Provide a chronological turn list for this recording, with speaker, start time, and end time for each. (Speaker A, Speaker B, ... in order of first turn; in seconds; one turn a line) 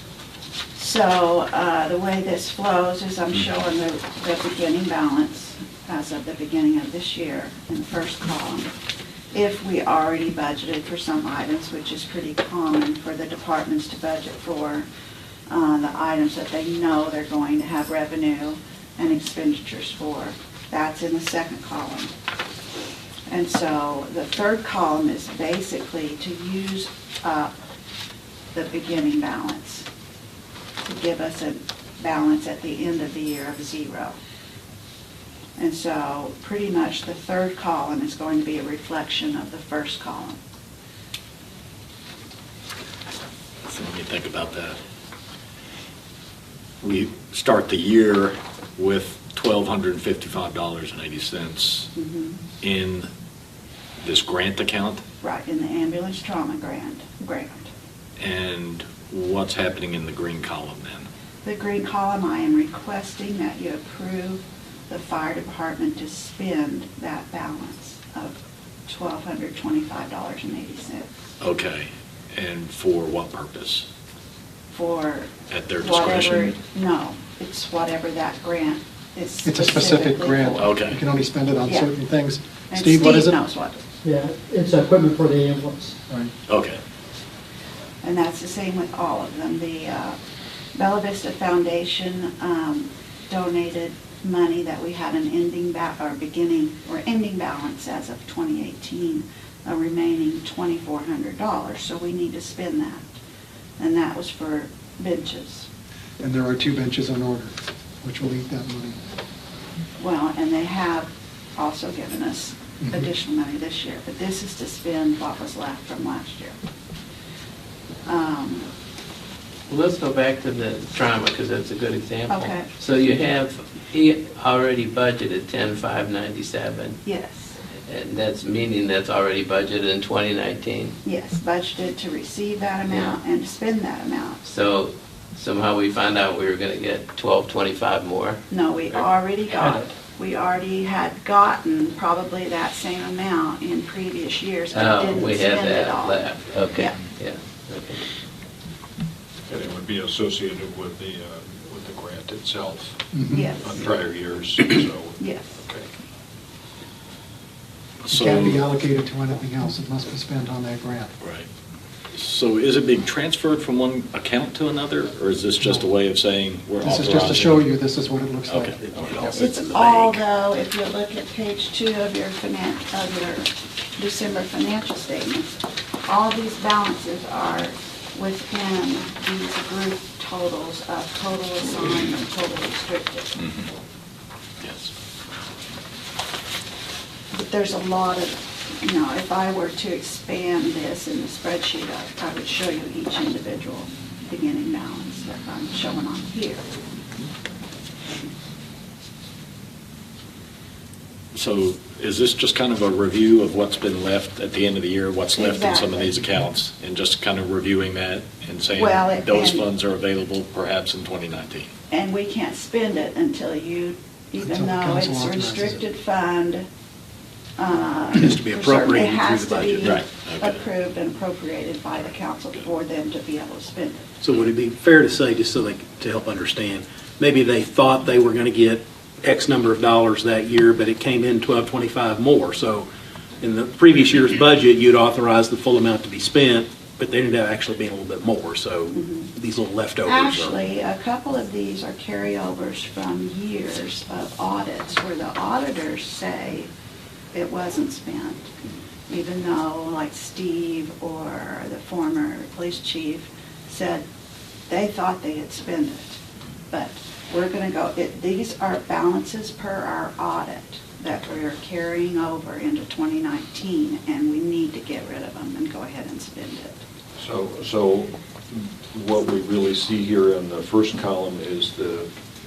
Speaker A: 0.8-8.7
Speaker A: 9.3-14.9
Speaker A: 15.5-22.1
Speaker A: 23.3-27.5
Speaker A: 28.5-29.9
Speaker A: 30.9-34.2
Speaker A: 35.6-40.4
Speaker B: 43.6-44.8
Speaker B: 46.8-51.9
Speaker A: 51.9-52.4
Speaker B: 52.6-53.1
Speaker B: 54.0-55.0
Speaker A: 55.2-57.7
Speaker B: 58.2-61.1
Speaker A: 61.4-71.1
Speaker B: 71.4-73.8
Speaker A: 74.7-80.8
Speaker B: 75.5-76.6
Speaker C: 79.4-83.4
Speaker B: 80.6-81.0
Speaker A: 81.6-81.9
Speaker A: 82.7-83.8
Speaker D: 84.0-86.0
Speaker B: 86.5-86.8
Speaker A: 88.0-90.2
Speaker A: 90.7-103.1
Speaker A: 103.8-105.7
Speaker C: 106.2-109.0
Speaker A: 110.0-116.6
Speaker C: 112.8-113.0
Speaker A: 118.0-118.7
Speaker E: 119.7-127.0
Speaker A: 122.3-122.7
Speaker A: 127.0-127.6
Speaker E: 127.8-130.9
Speaker A: 131.0-134.4
Speaker E: 132.9-133.2
Speaker E: 134.4-138.4
Speaker A: 138.5-147.0
Speaker E: 144.7-148.0
Speaker F: 149.5-155.8
Speaker C: 153.1-153.5
Speaker A: 153.3-153.8
Speaker A: 155.2-155.5
Speaker B: 158.0-158.6
Speaker C: 158.1-161.1
Speaker B: 161.2-161.5
Speaker B: 162.1-167.6
Speaker C: 166.8-168.8
Speaker B: 168.5-170.2
Speaker A: 169.2-183.4
Speaker B: 183.4-183.7
Speaker B: 184.6-184.9
Speaker A: 187.3-196.7
Speaker B: 201.3-211.7
Speaker A: 205.3-206.2
Speaker A: 208.7-209.7
Speaker A: 211.9-216.7
Speaker C: 214.4-215.8
Speaker A: 217.6-224.0
Speaker G: 218.2-219.8
Speaker B: 219.8-220.6
Speaker G: 224.2-232.9
Speaker G: 233.4-240.6
Speaker A: 238.9-239.3
Speaker A: 240.0-246.7
Speaker A: 247.3-248.5
Speaker A: 249.1-254.0
Speaker A: 254.7-256.2
Speaker A: 256.7-266.8
Speaker F: 267.2-272.1